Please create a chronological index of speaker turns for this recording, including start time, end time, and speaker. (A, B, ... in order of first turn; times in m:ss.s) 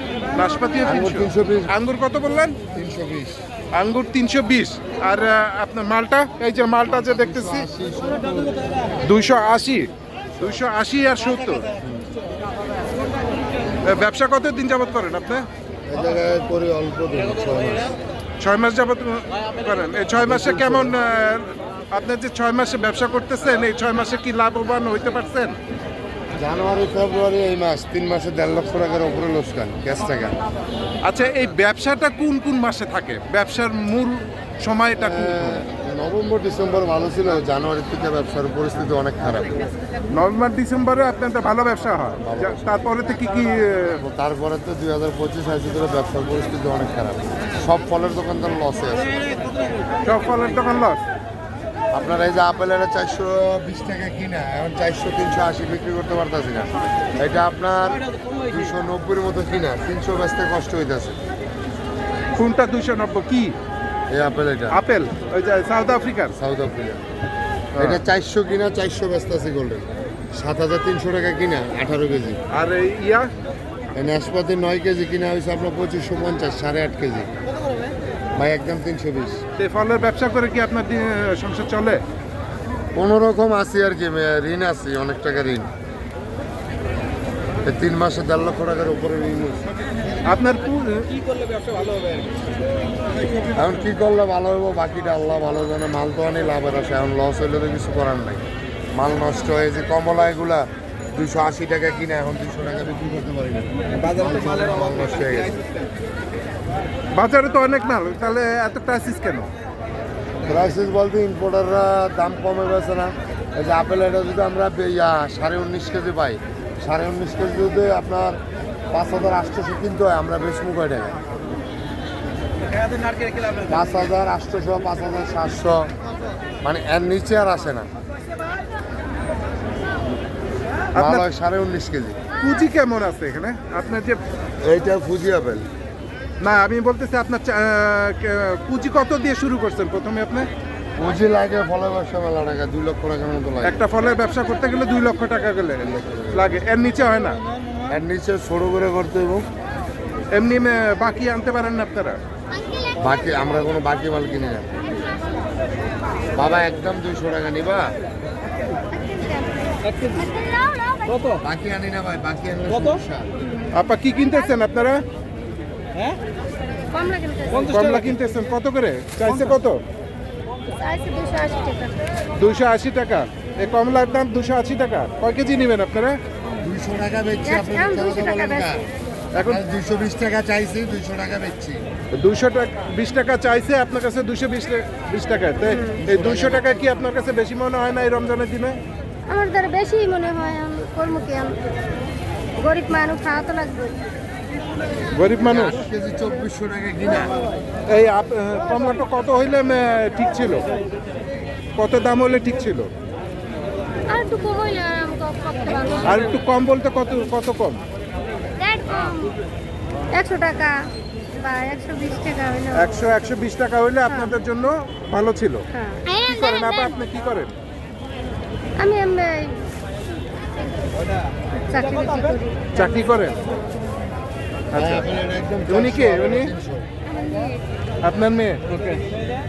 0:00.3-0:02.6 A
0:00.8-0:01.7 B
0:02.7-0:03.4 B
0:03.7-0:07.6 A
0:07.0-0:08.7 B
0:09.0-0:09.9 A
0:10.4-0:11.7 A
0:11.8-0:12.1 B
0:13.8-0:15.5 A
0:15.9-0:18.0 B
0:18.4-0:25.6 A
0:20.2-0:21.0 B
0:26.4-0:30.4 B
0:31.0-0:35.6 A
0:35.0-0:39.7 B
0:40.1-0:44.0 A
0:42.2-0:42.8 B
0:44.0-0:49.2 B
0:50.0-0:51.0 A
0:51.9-1:01.2 B
1:02.4-1:03.6 A
1:04.1-1:04.8 B
1:04.7-1:06.3 A
1:06.3-1:07.0 B
1:07.8-1:12.4 B
1:12.5-1:13.3 A
1:13.9-1:17.3 B
1:18.4-1:19.4 B
1:19.6-1:22.0 A
1:22.9-1:25.7 B
1:27.6-1:29.7 B
1:30.2-1:31.1 A
1:33.5-1:45.6 B
1:47.1-1:49.5 A
1:50.4-1:58.4 B
1:58.9-2:01.2 B
2:03.6-2:05.9 B
2:06.6-2:07.9 B
2:11.0-2:12.2 B
2:11.0-2:11.2 A
2:12.4-2:14.2 A
2:14.6-2:15.6 B
2:16.4-2:20.5 A
2:21.0-2:23.8 B
2:23.6-2:27.4 A
2:27.9-2:29.4 B
2:30.3-2:32.2 A
2:33.0-2:34.7 B
2:36.3-2:37.9 B
2:38.9-2:41.3 C
2:41.4-2:43.4 B
2:43.7-2:45.0 A
2:46.9-2:47.7 C
2:47.6-2:49.8 A
2:50.7-2:52.0 C
2:52.4-2:56.2 A
2:56.6-2:58.8 B
2:57.4-2:58.9 C
2:59.3-2:59.6 A
2:59.4-3:01.9 B
3:02.2-3:08.8 A
3:05.7-3:06.0 C
3:06.0-3:06.8 B
3:09.3-3:11.6 C
3:12.6-3:13.9 C
3:15.1-3:15.7 A
3:15.4-3:17.4 B
3:17.9-3:20.6 A
3:21.8-3:22.9 A
3:24.1-3:26.3 C
3:26.0-3:27.8 A
3:28.6-3:29.4 C
3:30.1-3:30.8 C
3:31.3-3:33.0 C
3:32.8-3:35.6 A
3:34.1-3:34.3 C
3:35.7-3:36.9 C
3:36.2-3:37.5 A
3:38.8-3:39.6 C
3:41.5-3:42.8 C
3:42.8-3:43.4 A
3:44.7-3:46.9 B
3:44.7-3:45.0 A
3:45.7-3:46.5 A
3:47.1-3:47.6 C
3:48.0-3:48.6 A